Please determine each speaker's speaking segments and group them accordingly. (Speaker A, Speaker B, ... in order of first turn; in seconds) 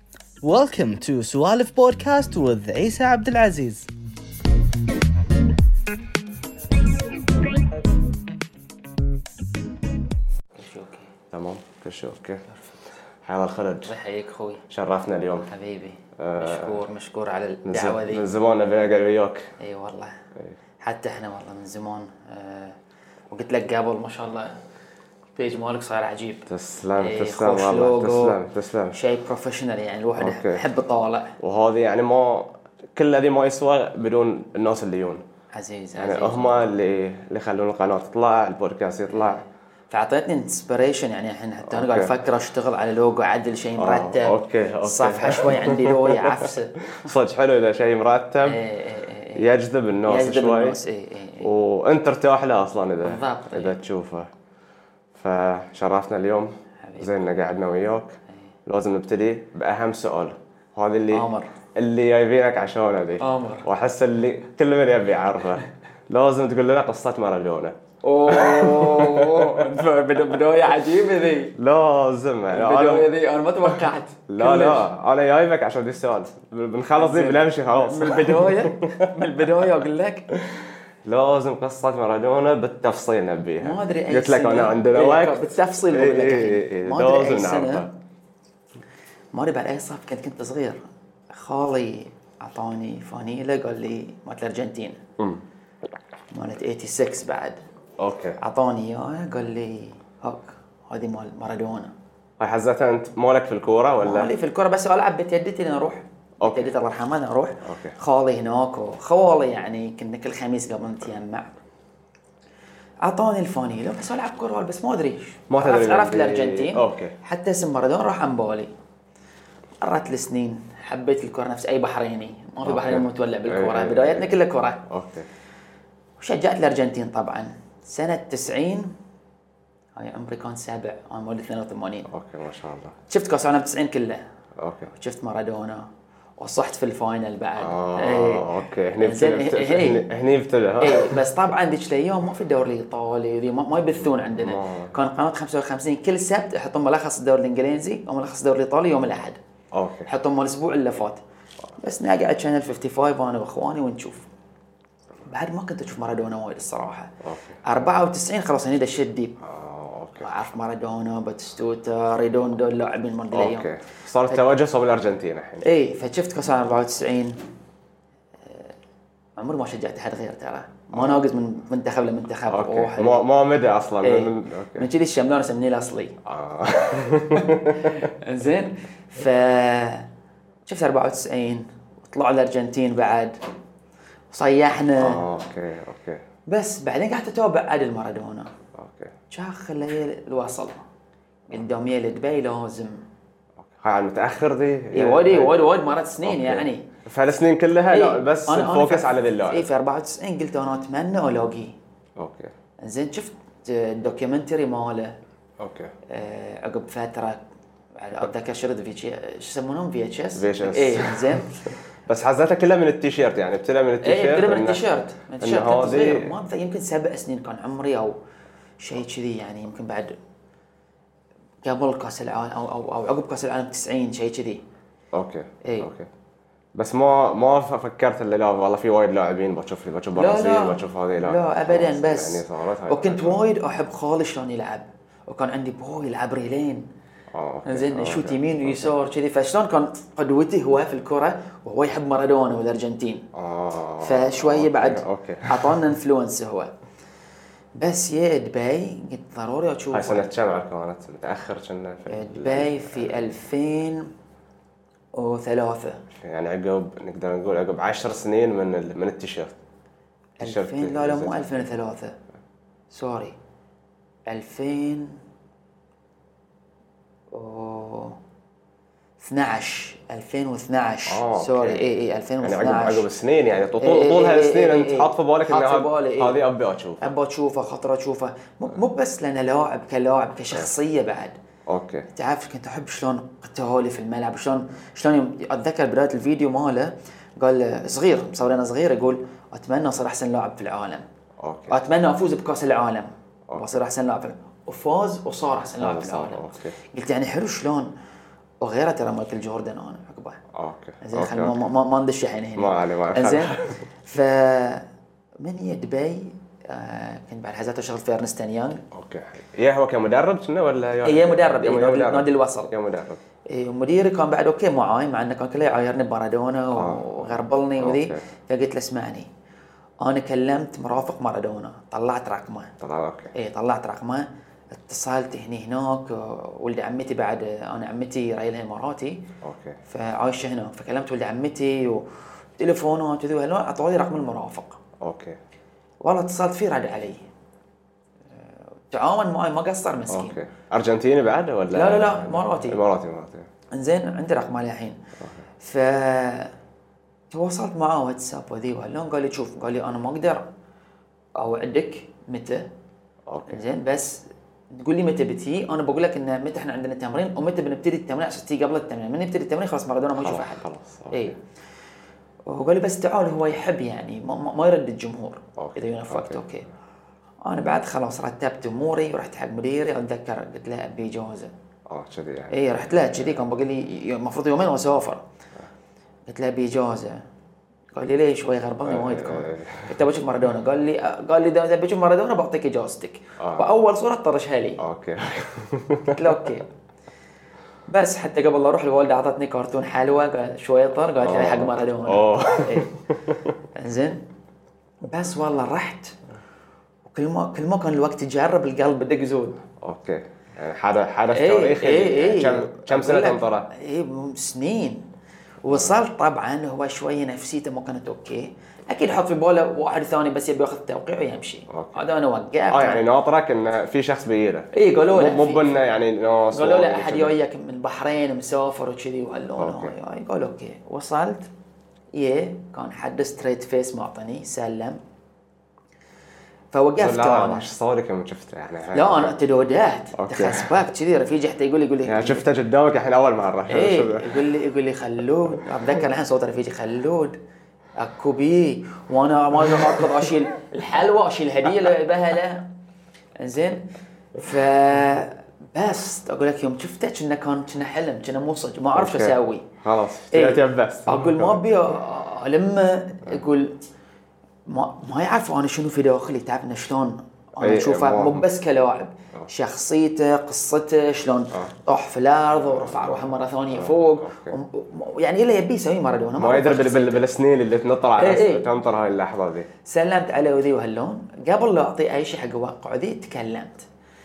Speaker A: 0.4-3.9
Speaker B: 10.6-11.1, 13.8-14.7, 15.5-18.3, 19.6-20.2, 20.8-22.8, 23.3-24.5, 25.4-28.4, 28.9-31.4, 35.5-36.7, 39.1-46.8, 48.4-49.5, 50.1-51.5, 53.0-53.8, 56.8-57.1, 61.1-61.5, 63.2-63.7, 68.0-71.6, 72.5-74.9, 77.0-80.3, 83.6-87.9, 89.3-95.0, 96.3-97.6, 98.4-101.9, 104.0-111.5, 113.0-118.7, 119.8-124.8, 126.2-128.9, 130.0-132.1, 133.1-134.2, 134.9-140.1, 140.8-149.4, 150.1-151.2, 151.8-154.3, 155.3-159.3, 160.2-163.7, 165.6-167.4, 168.5-168.7, 169.4-173.3, 174.0-176.2, 177.3-180.1, 180.7-183.3, 184.3-185.3, 186.5-188.5, 189.3-190.8, 191.5-193.0, 194.9-196.9, 197.9-201.8, 202.8-205.2, 206.1-207.4, 208.0-211.7, 214.0-218.2, 218.8-220.2, 221.6-224.6, 225.6-225.9, 230.2-236.9, 237.7-243.3, 244.0-246.7, 247.8-250.3, 252.1-254.1, 255.1-256.0, 260.4-262.1, 262.9-263.4, 264.3-265.2, 267.3-268.2, 269.2-273.1, 273.8-276.4, 277.0-281.4, 282.1-291.1, 291.7-297.9, 298.6-300.4, 301.0-304.9, 305.4-308.8, 311.0-312.7, 313.5-319.3, 320.0-322.8, 323.3-329.3, 329.9-332.1, 332.6-334.8, 336.0-337.2, 338.9-340.4, 341.7-342.8, 343.7-345.0, 345.6-346.5, 347.3-350.5, 351.4-352.7, 353.5-361.4, 362.5-366.7, 367.4-371.5, 372.5-375.2, 376.3-377.2, 377.9-384.8, 386.1-386.7, 387.9-392.9, 393.8-394.2, 395.0-396.2, 397.1-399.6, 401.3-405.1, 405.6-413.1, 414.7-415.7, 416.5-421.5, 422.1-425.0, 426.7-427.7, 428.9-432.5, 433.7-437.4, 438.0-442.7, 443.4-443.9, 444.4-449.7, 450.3-453.8, 454.7-467.3, 468.2-468.7, 469.9-473.8
Speaker C: 11.3-12.5, 13.2-13.9, 14.7-15.5, 16.2-16.8, 17.6-19.5, 26.5-29.0, 30.2-30.6, 31.4-35.2, 36.0-39.4, 41.7-42.1, 43.8-48.6, 49.4-50.8, 51.4-54.3, 55.1-67.8, 68.3-69.9, 71.6-73.1, 74.3-79.2, 80.4-87.9, 98.0-98.4, 102.4-104.3, 106.4-106.7, 107.7-108.0, 115.5-117.2, 122.6-124.3, 124.9-125.3, 132.1-132.9, 134.6-134.9, 137.6-141.2, 144.2-144.9, 149.7-150.1, 157.2-157.5, 159.4-160.3, 163.3-165.7, 172.5-174.9, 176.2-178.1, 185.0-186.2, 188.8-189.1, 193.6-195.7, 196.2-199.7, 202.2-202.5, 205.6-205.9, 210.3-211.5, 212.1-214.8, 215.4-216.3, 225.1-226.1, 226.8-233.4, 237.3-238.9, 243.3-245.8, 249.9-253.3, 256.1-259.6, 260.4-261.7, 271.1-271.9, 272.4-277.1, 281.7-282.1, 291.4-291.7, 295.8-296.8, 300.5-301.6, 302.6-303.8, 308.9-313.2, 316.8-318.2, 322.8-323.3, 329.4-329.8, 335.0-335.4, 340.1-343.5, 353.3-353.6, 360.2-361.4, 365.6-366.4, 371.9-373.4, 378.9-379.9, 383.4-383.7, 384.8-386.4, 391.2-393.4, 399.8-403.7, 405.7-406.0, 411.7-412.0, 412.7-417.3, 419.6-419.9, 427.0-429.3, 430.1-430.8, 432.1-434.4, 449.0-451.6, 457.6-458.4, 462.6-464.6, 466.4-469.7